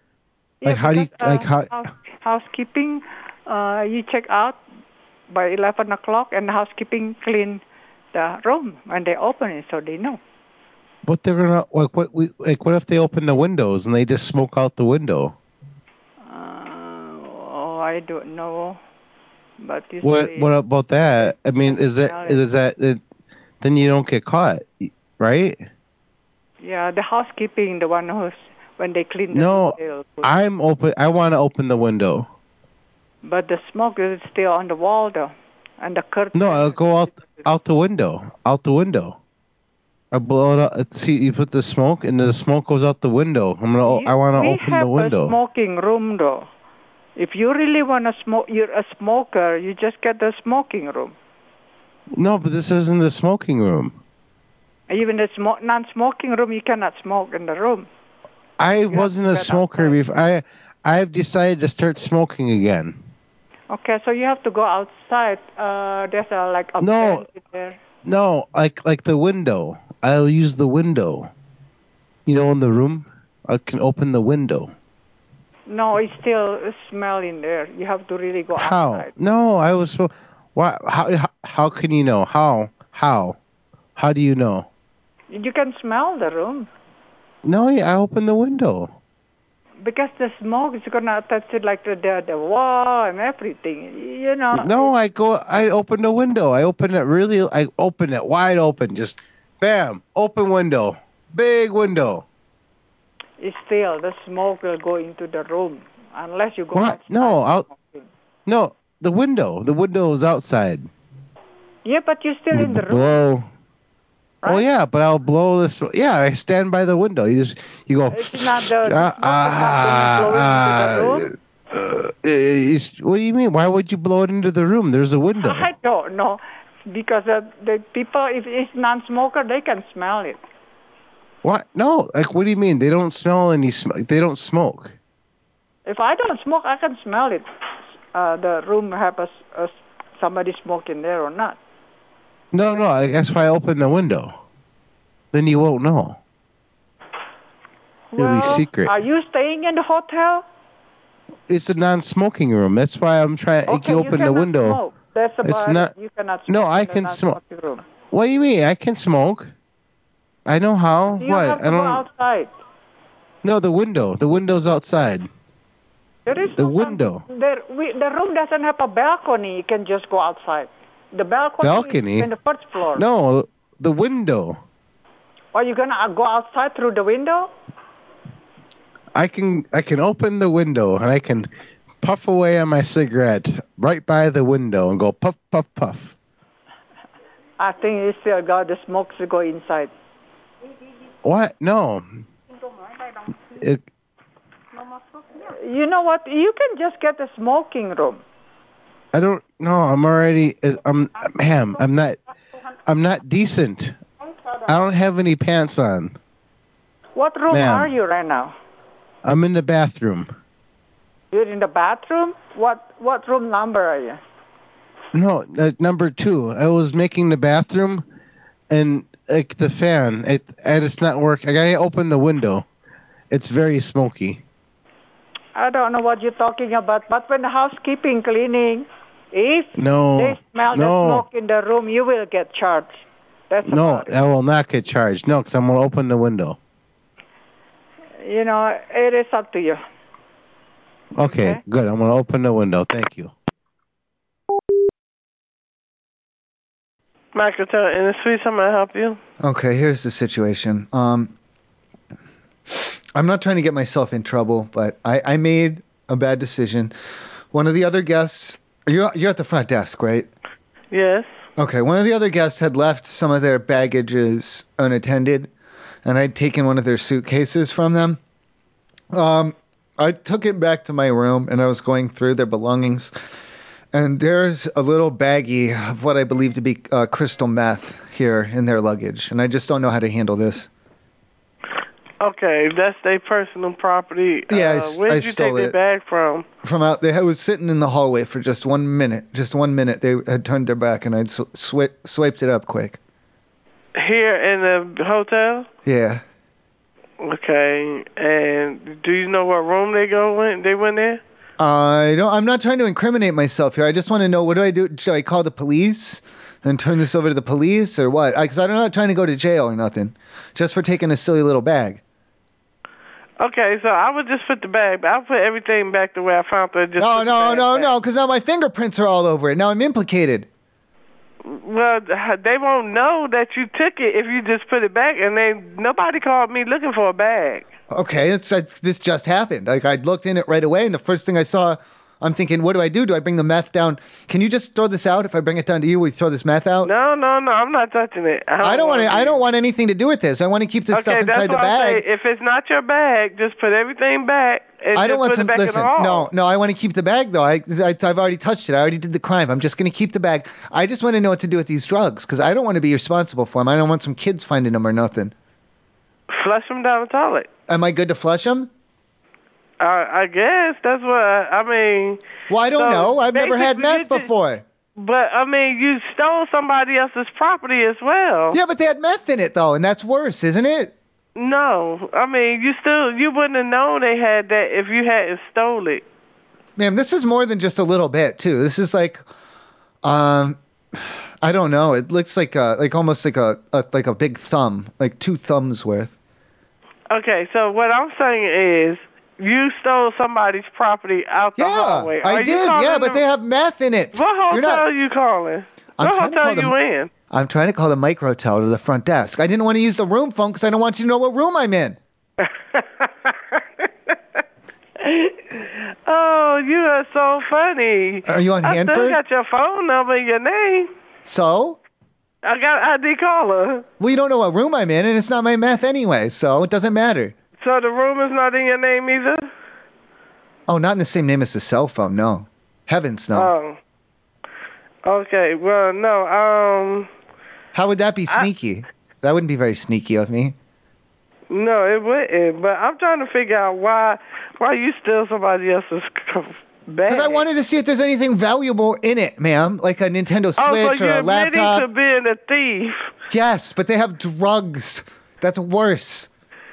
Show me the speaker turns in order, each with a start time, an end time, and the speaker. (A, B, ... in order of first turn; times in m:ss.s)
0:00.6-0:04.6 A
0:00.6-0:01.7 B
0:05.3-0:07.6 A
0:08.1-0:10.2 A
0:11.0-0:15.3 B
0:16.3-0:18.8 A
0:19.6-0:22.4 A
0:20.0-0:23.0 B
0:23.6-0:25.6 B
0:26.6-0:30.3 A
0:29.3-0:32.3 B
0:33.2-0:37.5 A
0:36.3-0:39.2 B
0:40.1-0:45.3 B
0:43.8-0:46.5 A
0:47.2-0:51.1 A
0:52.1-0:54.0 B
0:54.9-0:57.9 A
0:58.6-1:03.0 B
0:58.9-1:00.0 A
1:03.7-1:07.8 A
1:06.8-1:07.2 B
1:08.0-1:11.3 B
1:12.2-1:14.7 B
1:15.7-1:19.1 A
1:18.6-1:23.4 B
1:24.0-1:24.7 B
1:25.3-1:26.7 A
1:27.4-1:28.9 B
1:29.8-1:34.9 A
1:34.6-1:42.2 B
1:43.4-1:48.0 A
1:46.7-1:47.7 B
1:48.4-1:50.9 B
1:51.8-1:53.2 A
1:52.5-1:53.5 B
1:54.4-2:05.7 B
1:58.1-2:01.3 A
2:05.4-2:10.4 A
2:11.4-2:14.9 B
2:15.9-2:17.4 A
2:18.1-2:21.6 A
2:22.5-2:24.4 B
2:25.3-2:26.2 B
2:28.1-2:30.4 A
2:28.2-2:29.0 B
2:31.5-2:34.8 B
2:33.7-2:37.8 A
2:35.4-2:35.9 B
2:36.5-2:37.4 B
2:38.1-2:39.5 B
2:40.5-2:42.0 B
2:41.2-2:42.5 A
2:43.4-2:45.3 B
2:46.2-2:53.0 A
2:46.6-2:47.2 B
2:51.6-2:52.3 B
2:53.0-2:54.6 B
2:55.5-2:57.5 A
2:59.1-3:01.5 B
3:02.0-3:06.1 B
3:07.6-3:09.9 A
3:11.2-3:12.2 B
3:13.6-3:13.8 B
3:15.5-3:18.2 A
3:19.1-3:22.2 B
3:22.8-3:24.0 B
3:24.7-3:26.1 B
3:27.2-3:28.6 A
3:27.5-3:27.9 B
3:29.2-3:30.3 B
3:31.3-3:34.2 A
3:35.1-3:38.0 B
3:38.7-3:42.6 B
3:43.3-3:44.4 B
3:45.6-3:54.1 A
3:49.8-3:51.2 B
3:53.7-3:56.6 B
3:58.2-3:59.8 A
4:01.1-4:03.3 B
4:01.2-4:01.6 A
4:07.3-4:09.2 C
4:09.4-4:11.3 D
4:12.7-4:16.9 D
4:17.5-4:20.3 D
4:20.9-4:21.3 C
4:21.6-4:25.5 D
4:26.0-4:28.2 D
4:29.1-4:33.1 D
4:33.9-4:40.7 D
4:42.2-4:46.4 C
4:44.5-4:45.7 D
4:46.6-4:53.0 D
4:54.0-4:55.7 C
4:55.8-4:56.2 D
4:57.2-5:01.2 C
5:01.6-5:12.0 D
5:13.4-5:17.9 C
5:17.0-5:20.5 D
5:21.4-5:27.7 C
5:27.9-5:36.9 D
5:36.8-5:39.4 C
5:38.6-5:42.0 D
5:40.9-5:46.3 C
5:44.9-5:55.3 D
5:56.3-5:57.5 C
5:57.7-5:58.7 D
5:59.8-6:02.2 C
6:02.5-6:04.6 D
6:02.7-6:04.3 C
6:05.0-6:08.6 C
6:08.5-6:10.9 D
6:11.4-6:16.0 C
6:16.8-6:19.2 D
6:20.0-6:26.1 D
6:27.1-6:33.2 C
6:31.6-6:34.9 D
6:34.1-6:37.1 C
6:36.0-6:36.8 D
6:37.3-6:42.0 D
6:42.4-6:43.3 C
6:45.0-6:50.9 C
6:48.3-6:49.2 D
6:51.2-6:51.8 D
6:52.4-6:53.8 C
6:54.0-6:57.3 D
6:57.6-6:59.4 C
7:00.7-7:03.5 D
7:03.3-7:03.8 C
7:05.0-7:07.1 C
7:07.7-7:10.6 D
7:11.5-7:17.4 C
7:17.0-7:21.9 D
7:20.6-7:23.1 C
7:23.3-7:26.3 D